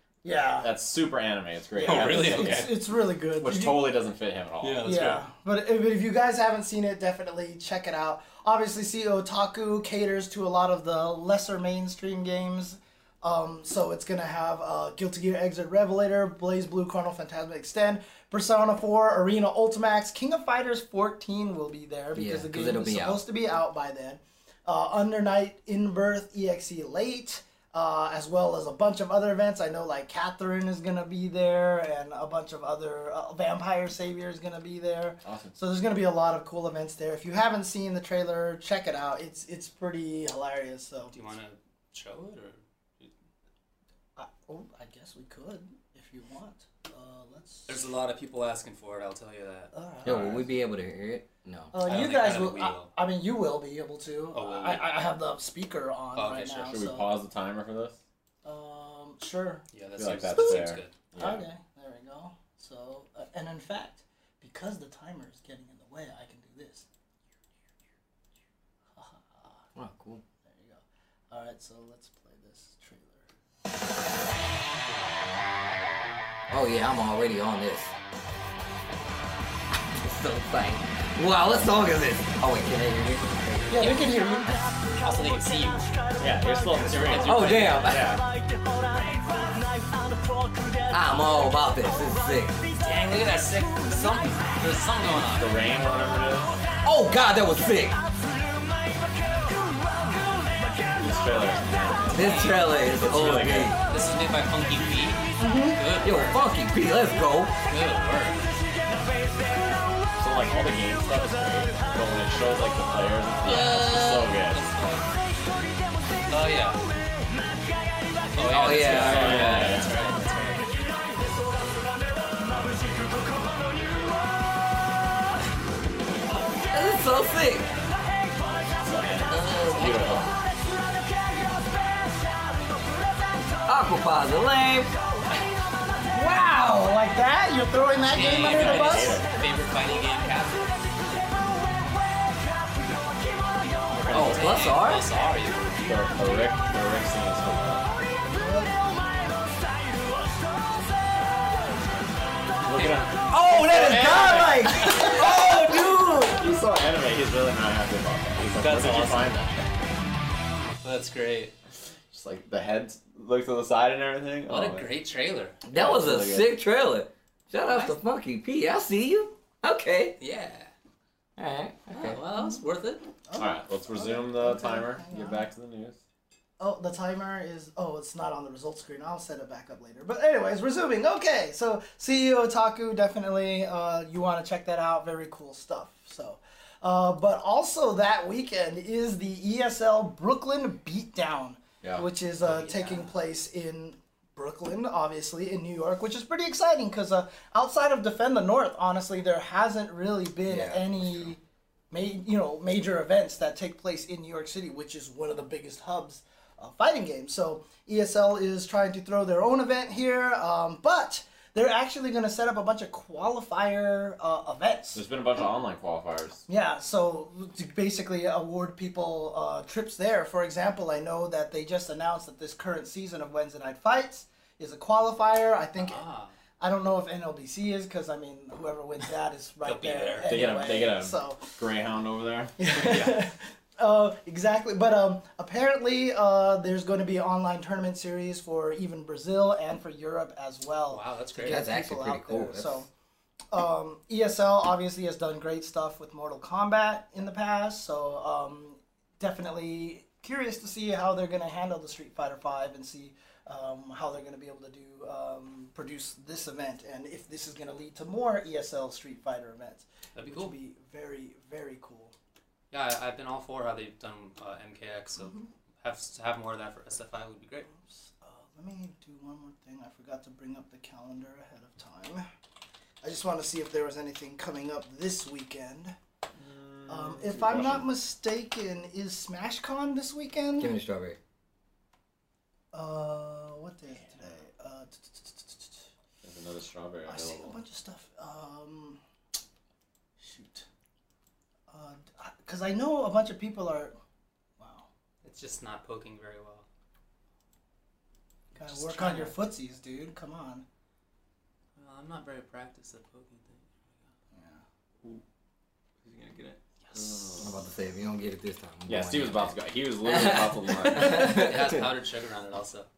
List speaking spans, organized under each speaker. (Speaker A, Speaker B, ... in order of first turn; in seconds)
Speaker A: 0.2-0.7, 1.8-3.9, 4.8-41.2, 44.1-47.8, 49.7-50.4, 51.7-57.1, 58.4-59.6, 61.2-66.8, 68.9-69.7, 70.4-73.2, 83.7-84.6, 105.4-105.8, 136.1-139.2, 148.3-149.0, 153.3-156.3, 173.3-175.4, 176.6-201.4, 201.9-215.0, 216.5-226.0, 226.6-231.5, 232.6-242.9, 243.5-262.1, 265.2-265.5, 267.7-272.2, 273.0-275.9, 276.9-280.7, 282.7-285.8, 287.1-289.0, 290.2-290.6, 291.7-293.9, 294.6-294.9, 298.6-300.6, 304.3-304.6
Speaker B: 0.6-5.0, 35.2-35.5, 56.7-58.0, 60.0-61.4, 86.2-88.2, 95.3-96.6, 101.0-103.8, 110.2-114.6, 118.8-119.9, 128.8-130.3, 138.2-139.3, 143.9-144.5, 145.8-147.9, 152.6-155.2, 156.3-159.5, 162.1-164.9, 165.7-166.5, 173.4-176.0, 214.9-216.4, 230.3-233.2, 276.4-277.9, 286.2-287.6, 306.9-307.5, 308.9-311.4
Speaker C: 1.8-2.7, 4.6-5.2, 41.1-43.1, 47.7-50.4, 51.8-52.9, 54.3-54.9, 56.1-56.7, 59.7-60.9, 83.7-84.1, 85.0-86.0, 87.0-88.0, 92.8-95.5, 102.1-102.8, 103.8-106.4, 107.7-108.5, 113.4-115.1, 116.3-116.8, 118.3-120.8, 129.8-130.2, 138.0-140.8, 144.1-145.9, 152.7-153.1, 158.5-159.4, 160.7-161.5, 164.5-165.6, 167.6-168.0, 170.2-170.7, 171.9-173.0, 192.4-193.1, 225.8-226.3, 229.6-230.5, 240.9-241.7, 260.1-260.5, 262.7-267.7, 295.2-296.6, 298.5-299.4, 301.8-303.9, 306.1-307.4, 310.9-312.9
Speaker D: 22.1-23.2, 50.0-51.7, 69.8-70.2, 76.5-77.9, 79.9-84.1, 87.2-88.2, 90.9-92.6, 96.8-98.0, 102.1-103.8, 106.0-107.5, 118.4-119.7, 126.7-127.7, 129.3-130.3, 133.6-134.9, 144.1-145.0, 153.3-156.3, 165.7-170.2, 171.4-172.2, 200.5-200.8, 241.5-242.8, 280.6-281.2, 307.4-309.5, 310.0-311.8